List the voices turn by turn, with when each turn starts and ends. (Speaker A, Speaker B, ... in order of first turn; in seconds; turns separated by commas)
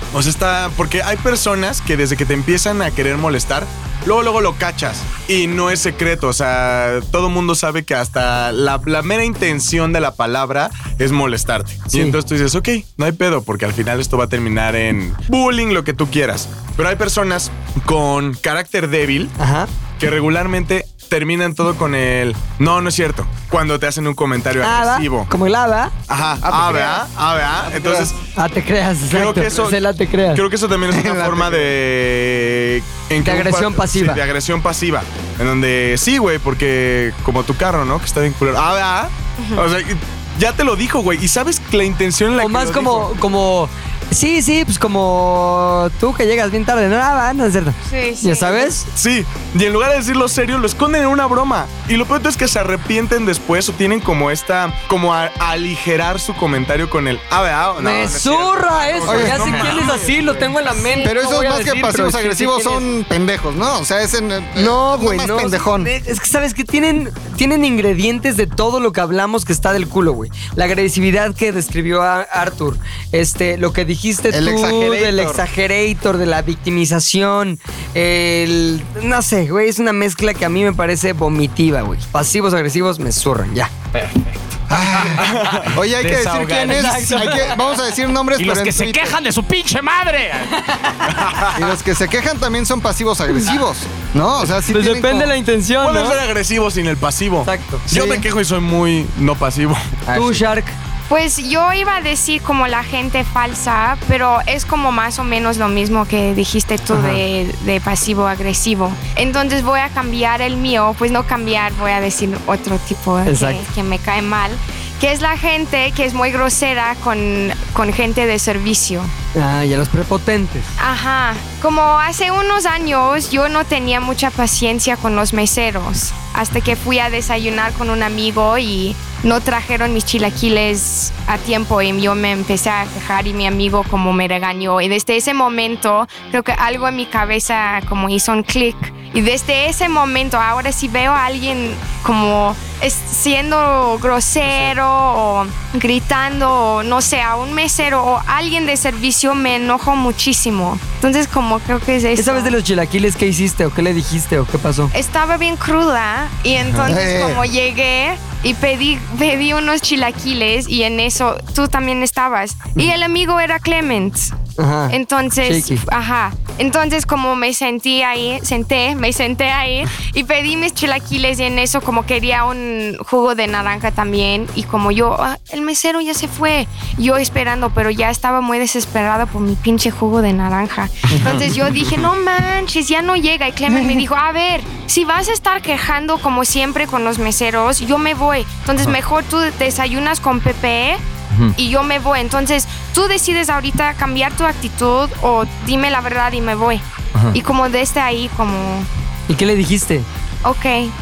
Speaker A: 0.1-19.3, Speaker B: 11.9-12.2, Speaker B: 19.4-19.7, Speaker A: 20.0-25.3, Speaker B: 24.6-25.9, Speaker A: 26.1-28.2, Speaker C: 26.4-27.0, Speaker C: 27.6-28.1, Speaker B: 28.3-30.4, Speaker A: 29.1-43.1, Speaker C: 30.9-31.7, Speaker B: 33.2-34.2, Speaker D: 39.4-39.6, Speaker B: 42.4-48.9, Speaker D: 47.9-48.7, Speaker A: 48.9-60.5, Speaker B: 57.8-62.9, Speaker C: 59.0-59.9, Speaker C: 61.0-65.9, Speaker B: 64.5-83.7, Speaker C: 74.3-75.4, Speaker E: 83.9-87.5, Speaker C: 84.7-89.2, Speaker A: 85.2-85.7, Speaker B: 86.6-87.5, Speaker E: 88.3-91.0, Speaker A: 91.1-91.6, Speaker C: 91.5-95.3, Speaker B: 94.7-96.2, Speaker A: 95.8-100.0, Speaker B: 97.4-97.8, Speaker C: 97.9-98.2, Speaker E: 100.1-100.4, Speaker B: 100.1-100.8, Speaker D: 101.1-119.1, Speaker B: 106.9-107.2, Speaker B: 113.2-113.6, Speaker B: 119.3-120.7, Speaker D: 120.8-152.6, Speaker B: 144.5-144.7, Speaker B: 152.2-154.9, Speaker D: 154.9-164.3, Speaker C: 156.8-157.4, Speaker B: 164.6-165.8, Speaker D: 164.9-191.0, Speaker D: 191.6-198.9, Speaker B: 199.3-200.1, Speaker D: 200.4-200.9